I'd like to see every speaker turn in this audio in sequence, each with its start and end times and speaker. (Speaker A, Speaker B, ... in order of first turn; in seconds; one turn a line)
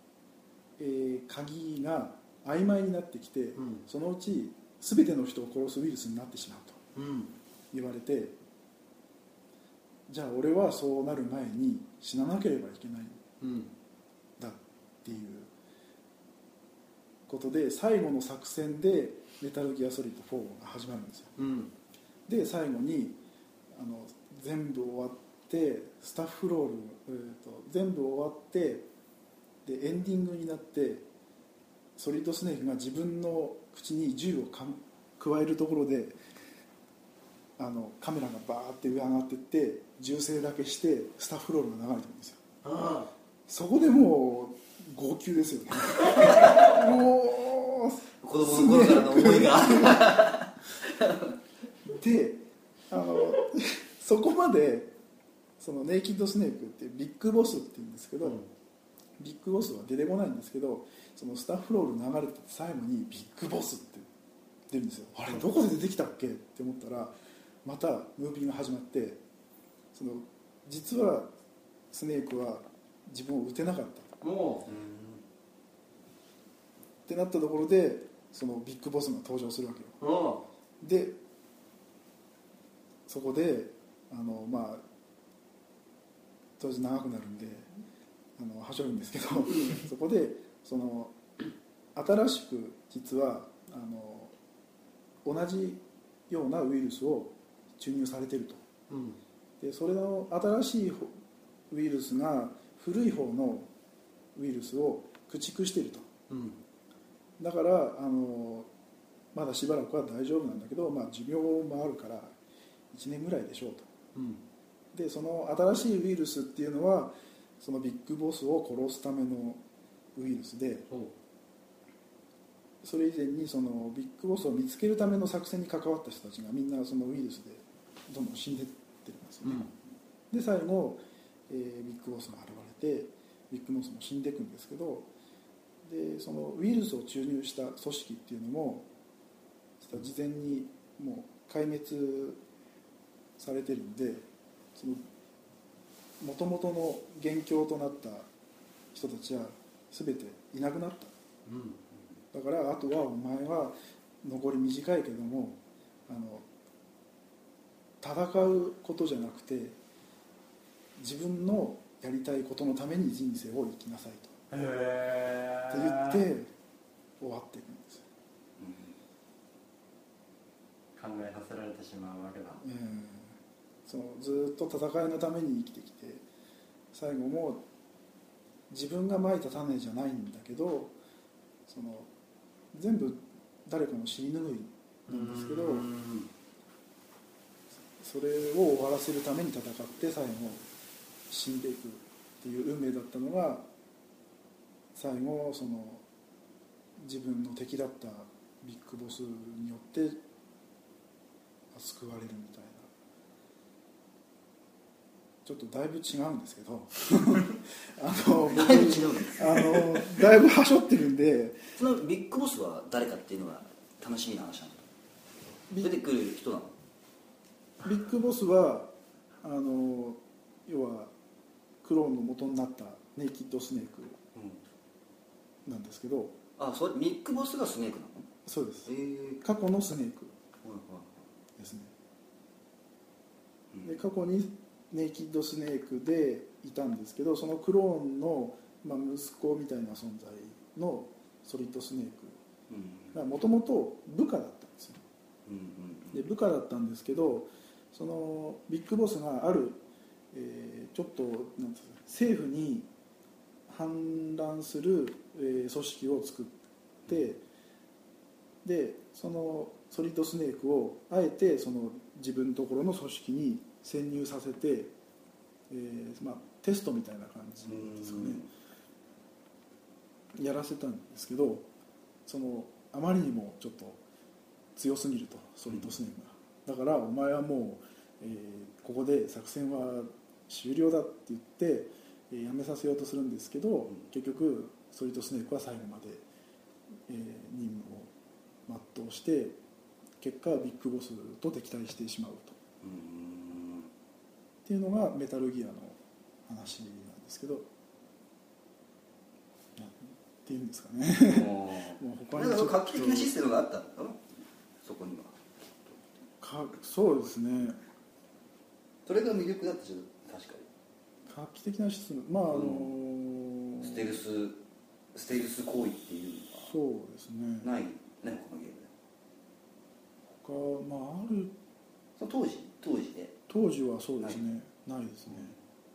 Speaker A: 0.8-6.8
Speaker B: 3.6-3.8
Speaker B: 6.9-7.3
Speaker A: 7.7-8.3
Speaker A: 10.1-13.2
Speaker B: 13.4-13.7
Speaker A: 14.4-15.5
Speaker A: 17.3-21.3
Speaker B: 21.4-21.7
Speaker A: 22.3-23.2
Speaker A: 23.7-28.9
Speaker A: 29.6-31.1
Speaker A: 32.0-36.1
Speaker A: 37.6-42.4
Speaker B: 42.6-43.1
Speaker A: 43.5-50.3
Speaker C: 48.2-51.3
Speaker A: 51.8-54.9
Speaker A: 55.6-58.4
Speaker A: 59.2-64.1
Speaker A: 64.7-69.2
Speaker A: 69.9-71.3
Speaker A: 71.9-74.1
Speaker B: 74.2-74.7
Speaker C: 74.6-75.2
Speaker A: 77.1-80.0
Speaker B: 80.0-80.4
Speaker A: 80.8-81.2
Speaker A: 83.1-84.8
Speaker A: 86.6-87.7
Speaker A: 88.4-91.2
Speaker A: 91.9-94.3
Speaker A: 95.2-98.6
Speaker B: 98.9-99.2
Speaker A: 99.6-101.1
Speaker A: 101.7-103.7
Speaker A: 104.3-106.1
Speaker B: 106.3-106.6
Speaker A: 107.4-108.7
Speaker A: 109.3-112.3
Speaker A: 112.9-113.9
Speaker B: 114.1-114.4
Speaker A: 114.9-119.6
Speaker A: 120.2-120.9
Speaker A: 122.8-129.6
Speaker B: 129.4-129.7
Speaker A: 130.3-135.1
Speaker A: 135.8-138.9
Speaker A: 139.8-142.4
Speaker A: 143.4-145.0
Speaker A: 146.2-148.3
Speaker A: 148.9-151.1
Speaker B: 151.4-151.8
Speaker A: 152.3-156.4
Speaker A: 158.0-159.8
Speaker A: 161.0-164.3
Speaker B: 164.5-166.2
Speaker A: 165.7-166.5
Speaker A: 167.2-168.0
Speaker C: 168.6-168.9
Speaker B: 170.9-172.6
Speaker A: 172.6-173.3
Speaker A: 173.8-176.2
Speaker A: 176.9-177.6
Speaker A: 178.7-180.9
Speaker A: 181.7-182.1
Speaker A: 182.7-185.9
Speaker B: 185.1-186.3
Speaker A: 188.0-190.6
Speaker A: 191.3-193.7
Speaker A: 194.9-196.0
Speaker A: 197.0-200.2
Speaker A: 201.7-202.9
Speaker A: 205.4-211.6
Speaker C: 208.4-210.0
Speaker C: 211.8-214.8
Speaker A: 215.7-216.0
Speaker C: 215.8-216.7
Speaker A: 217.8-218.9
Speaker A: 219.4-221.1
Speaker A: 221.8-224.2
Speaker C: 224.3-224.6
Speaker A: 225.7-226.3
Speaker C: 226.6-228.3
Speaker A: 228.4-230.3
Speaker C: 228.8-229.4
Speaker C: 230.6-231.2
Speaker A: 231.6-231.9
Speaker A: 233.8-242.4
Speaker C: 242.7-243.1
Speaker A: 243.1-245.0
Speaker C: 245.4-246.2
Speaker A: 246.1-249.8
Speaker A: 250.3-252.9
Speaker A: 253.7-257.4
Speaker A: 258.6-264.9
Speaker A: 265.7-268.4
Speaker C: 267.7-268.4
Speaker A: 270.3-271.7
Speaker A: 272.2-274.0
Speaker A: 274.8-286.2
Speaker A: 287.1-288.1
Speaker A: 288.7-289.6
Speaker A: 290.2-292.6
Speaker C: 292.8-293.9
Speaker A: 294.6-297.7
Speaker A: 299.8-303.3
Speaker C: 301.2-304.3
Speaker C: 304.8-306.1
Speaker A: 306.4-307.8
Speaker C: 309.0-310.7
Speaker A: 311.3-314.1
Speaker C: 312.5-312.9
Speaker C: 313.8-314.6
Speaker C: 315.1-316.7
Speaker A: 316.6-317.7
Speaker C: 317.6-318.9
Speaker A: 320.3-321.5
Speaker C: 322.2-323.3
Speaker A: 323.5-325.6